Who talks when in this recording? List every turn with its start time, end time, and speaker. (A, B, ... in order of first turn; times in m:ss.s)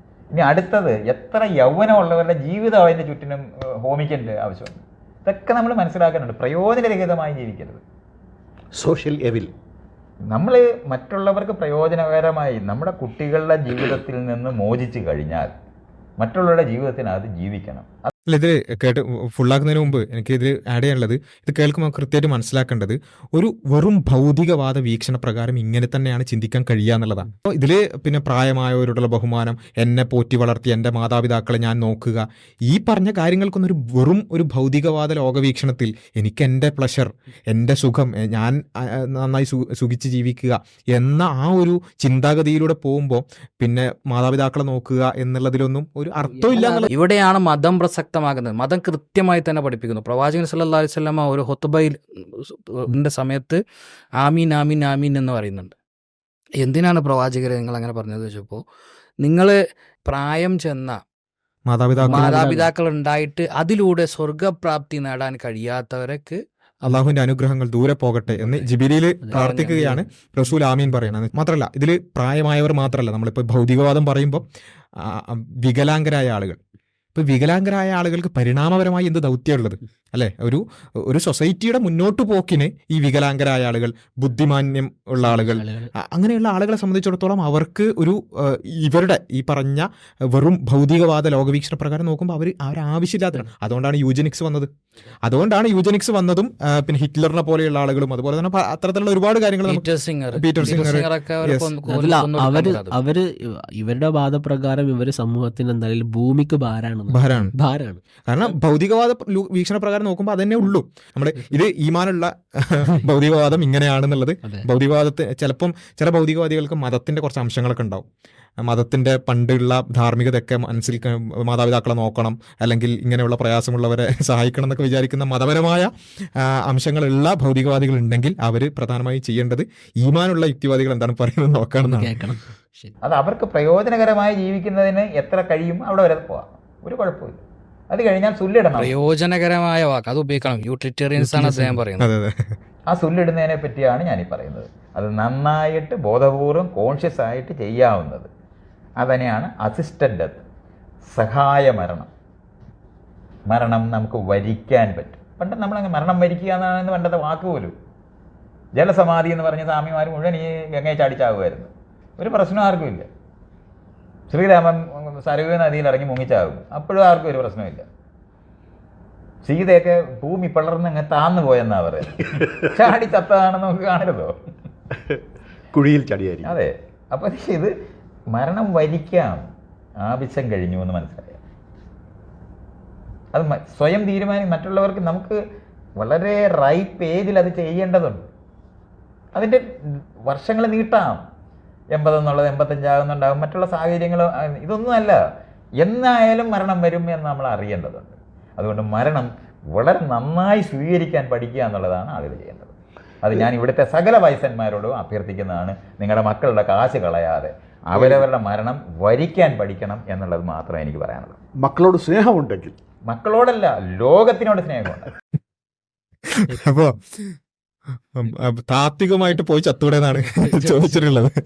0:00.3-0:07.8 A
0:08.8-0:09.5 B
0:10.3-0:15.5 A
0:16.2-0:18.1 A
0:18.3-0:46.9 C
0:46.3-0:46.7 D
0:46.5-0:53.6 E
0:54.2-0:55.8 E
0:56.6-0:58.6 E
0:59.2-0:59.6 E
1:00.1-1:01.0 E
1:01.7-1:02.4 C
1:02.0-1:02.7 D
1:02.1-1:07.0 E
1:06.8-1:14.4 C
1:08.4-1:08.7 E
1:09.3-1:10.0 E
1:15.0-1:16.6 C
1:17.1-1:34.7 C
1:25.2-1:25.9 D
1:35.2-1:41.7 C
1:39.7-1:43.0 E
1:41.8-1:48.0 D
1:47.1-1:47.5 C
1:48.3-1:58.0 C
1:58.6-2:12.1 C
2:11.8-2:12.9 D
2:13.0-2:18.9 A
2:18.8-2:22.1 E
2:21.2-2:21.8 D
2:22.0-2:22.5 C
2:22.9-2:28.3 A
2:29.0-2:30.4 A
2:31.1-2:32.1 A
2:33.5-2:37.8 A
2:38.8-2:43.1 A
2:44.3-2:47.8 A
2:49.4-2:54.3 A
2:55.7-2:56.5 B
2:56.4-2:57.7 A
2:58.3-2:59.4 A
3:00.0-3:01.4 A
3:03.3-3:05.4 A
3:06.0-3:08.3 A
3:09.3-3:09.6 A
3:10.2-3:11.2 A
3:11.9-3:15.2 A
3:15.8-3:31.4 A
3:27.9-3:28.2 B
3:31.6-3:32.8 B
3:33.1-3:35.1 A
3:36.4-3:37.3 C
3:38.2-3:41.3 C
3:40.2-3:41.0 D